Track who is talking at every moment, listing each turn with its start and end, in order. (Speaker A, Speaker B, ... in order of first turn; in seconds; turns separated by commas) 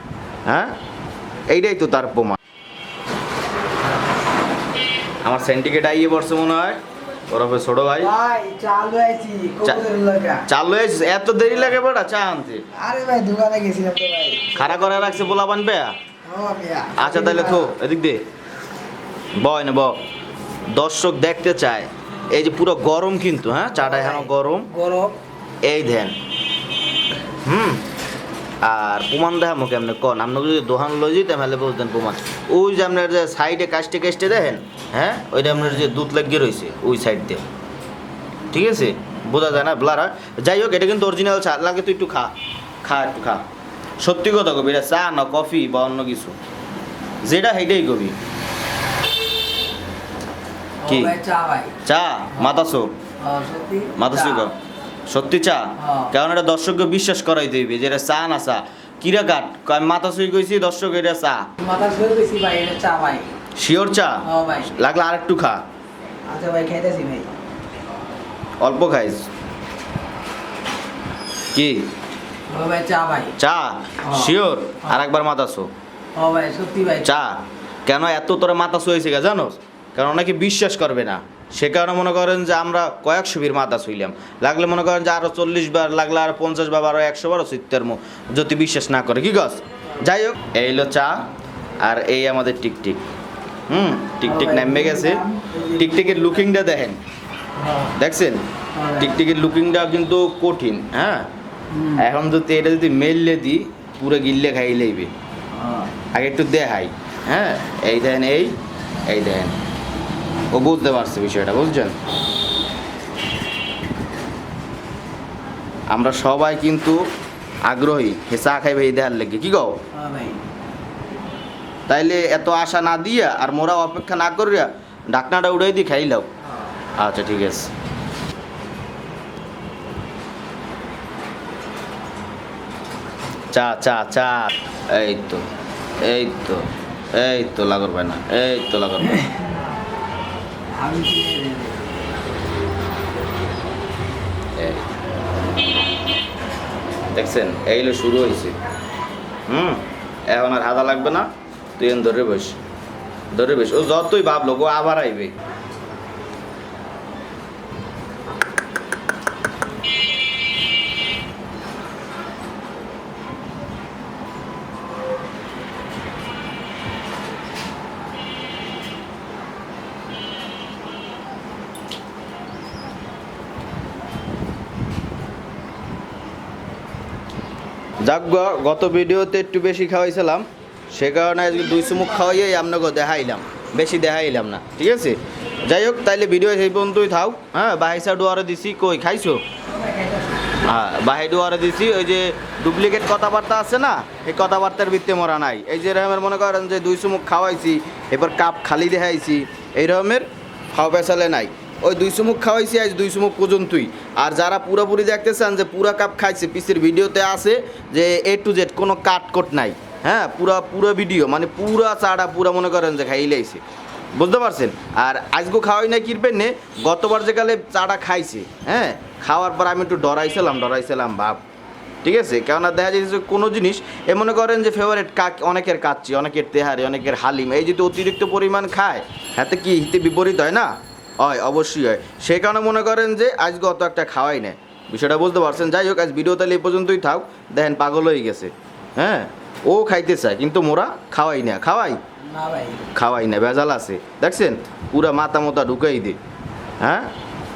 Speaker A: 0.5-0.8, Speaker A: 1.5-2.4, Speaker A: 5.2-8.1, Speaker B: 8.0-10.5, Speaker A: 10.5-12.7, Speaker B: 12.7-15.4, Speaker A: 14.5-16.0, Speaker B: 16.2-17.7, Speaker A: 16.9-18.2, Speaker A: 19.4-20.0, Speaker A: 20.7-24.7, Speaker B: 23.7-25.2, Speaker A: 25.6-26.2, Speaker A: 27.4-27.9, Speaker A: 28.6-37.5, Speaker A: 38.5-43.5, Speaker A: 44.0-46.4, Speaker A: 47.2-48.2, Speaker B: 50.8-51.8, Speaker A: 50.9-51.1, Speaker A: 51.8-52.9, Speaker B: 53.2-54.5, Speaker A: 53.9-54.5, Speaker A: 55.1-61.5, Speaker B: 55.8-56.1, Speaker B: 61.6-63.3, Speaker A: 63.5-65.6, Speaker B: 64.2-64.7, Speaker B: 66.2-67.3, Speaker A: 68.6-69.3, Speaker A: 71.5-71.9, Speaker B: 72.5-73.4, Speaker A: 73.4-75.7, Speaker B: 74.0-74.3, Speaker B: 76.1-77.1, Speaker A: 77.0-91.3, Speaker A: 91.8-93.1, Speaker A: 93.7-97.0, Speaker B: 94.2-96.2, Speaker B: 97.5-97.9, Speaker A: 97.8-101.3, Speaker B: 98.7-99.2, Speaker B: 101.7-102.0, Speaker A: 101.8-105.1, Speaker B: 105.5-105.9, Speaker A: 106.1-109.5, Speaker A: 110.5-112.0, Speaker A: 115.9-117.0, Speaker A: 117.6-119.8, Speaker B: 119.9-120.4, Speaker A: 121.9-126.3, Speaker A: 127.0-127.7, Speaker A: 133.5-135.5, Speaker A: 136.0-139.4, Speaker B: 139.1-139.5, Speaker B: 140.7-141.8, Speaker A: 144.6-144.9, Speaker A: 147.1-148.6, Speaker A: 149.5-152.6, Speaker A: 153.3-155.4, Speaker A: 178.0-189.4, Speaker B: 189.8-190.2, Speaker A: 190.6-213.6, Speaker A: 214.2-221.4, Speaker A: 222.0-242.0, Speaker B: 242.2-242.9, Speaker A: 242.9-246.2, Speaker A: 246.8-247.1